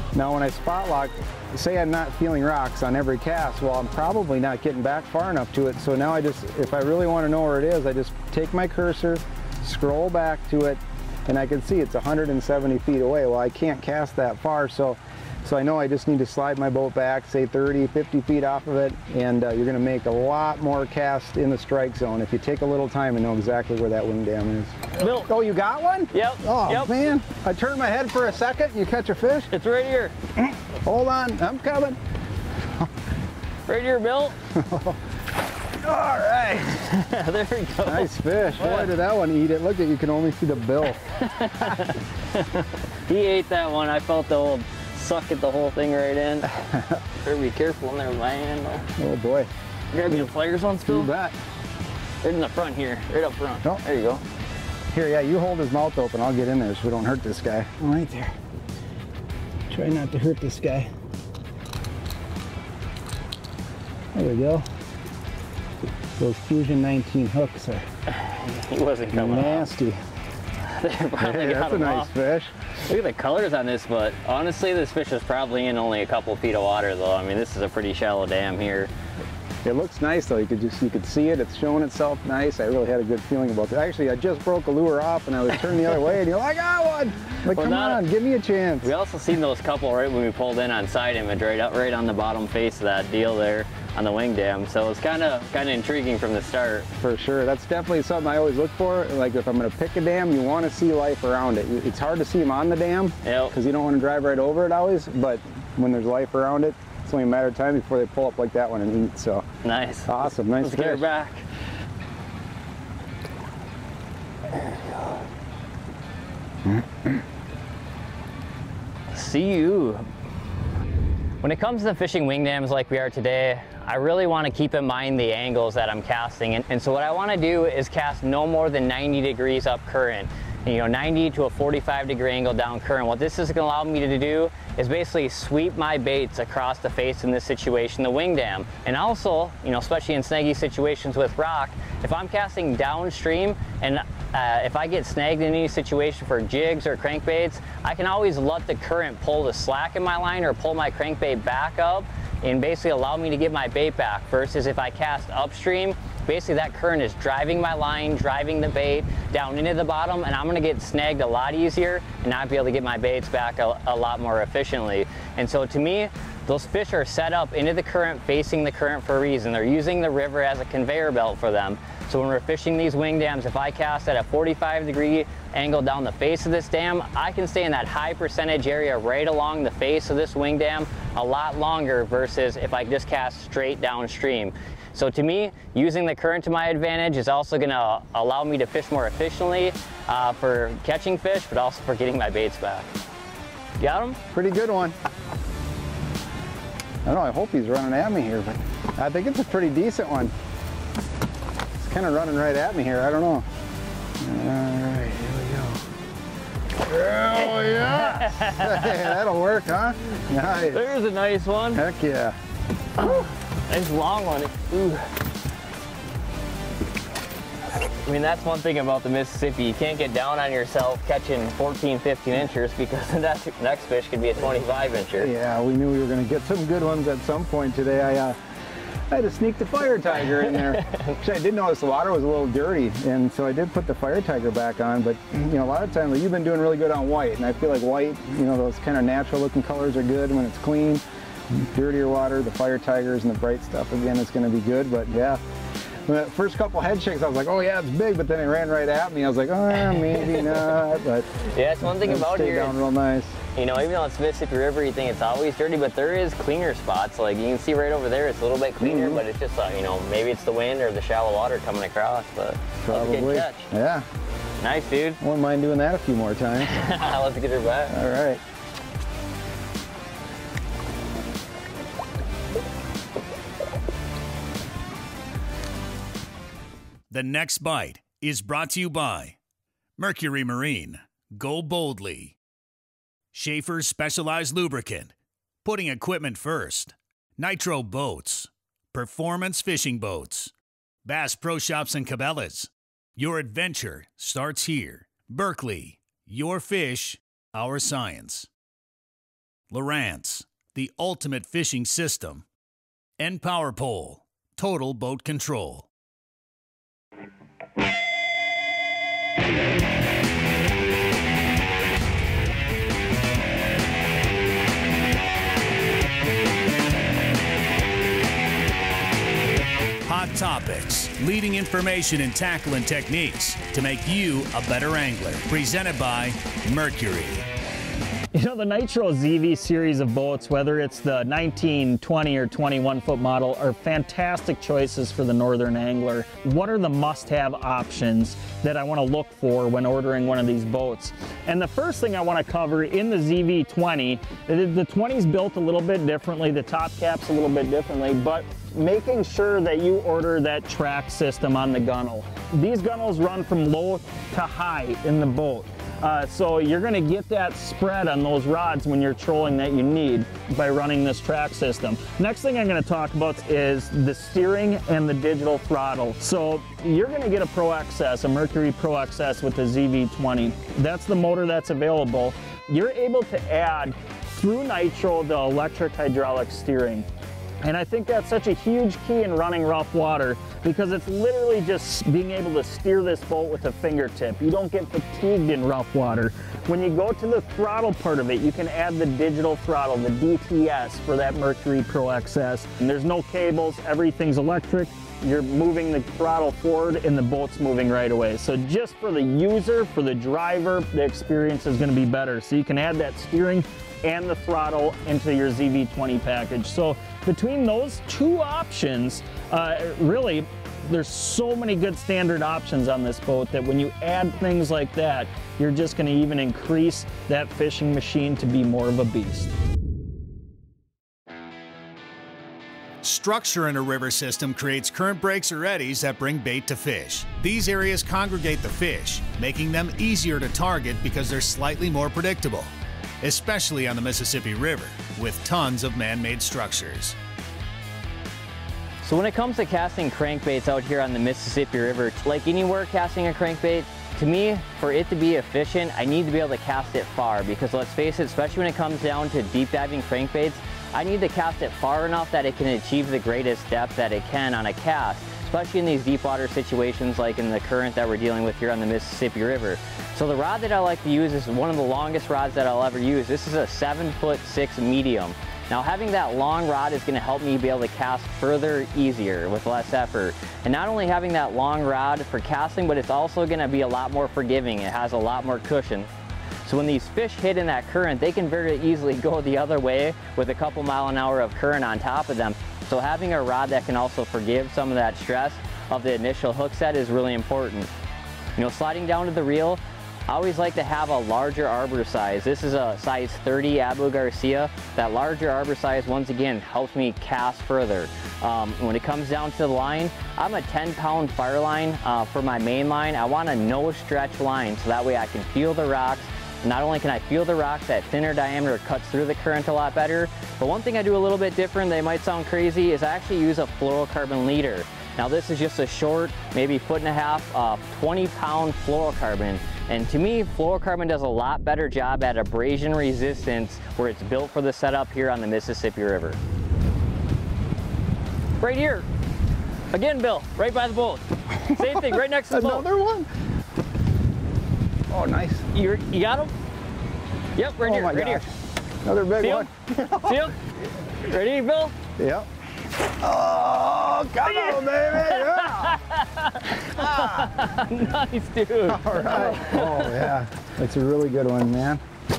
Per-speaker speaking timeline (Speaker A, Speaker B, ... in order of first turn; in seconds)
Speaker A: 0.1-29.5, 30.4-32.0, 34.5-35.0, 35.8-36.8, 37.9-41.0, 49.0-49.5, 50.9-51.4, 54.9-58.4, 59.7-60.9, 64.1-64.7, 66.2-67.9, 69.1-70.0, 71.2-72.5, 79.6-88.9, 97.0-109.5, 110.1-111.0, 194.3-195.0, 197.1-200.3, 201.8-203.5, 204.2-205.8, 206.8-210.8, 211.8-212.4, 225.2-228.4, 229.1-245.4, 246.1-253.4, 258.8-259.2, 262.8-264.1, 265.2-266.8, 267.9-268.4, 531.7-533.3, 535.1-535.7, 537.8-538.5, 539.0-540.5, 542.2-542.5, 543.1-546.0, 546.8-547.6, 548.9-552.0
Speaker B: 25.0-25.3, 26.1-27.0, 29.5-30.1, 33.7-34.4, 36.6-38.9, 41.2-46.5, 47.2-48.9, 49.9-51.1, 52.2-54.2, 68.1-69.7, 70.6-72.1, 72.8-78.9, 87.5-88.0, 88.8-96.9, 103.2-103.5, 109.6-111.4, 119.1-120.1, 121.4-192.9, 193.8-194.2, 207.6-209.1, 210.7-211.8, 213.0-215.1, 217.8-225.3, 230.9-231.1, 251.4-252.8, 253.6-263.7, 264.6-265.2, 266.7-268.0, 439.0-476.1, 476.6-487.9, 488.6-526.4, 528.6-529.1, 529.9-532.9, 535.7-536.5, 537.6-538.4, 539.4-539.7, 540.2-540.6, 541.2-542.0, 544.4-550.3
Speaker C: 277.1-279.4, 280.0-282.4, 283.3-290.5, 291.1-298.5, 299.7-302.4, 303.2-305.9, 320.1-327.5, 423.0-437.2
Speaker D: 328.3-377.1, 377.6-419.5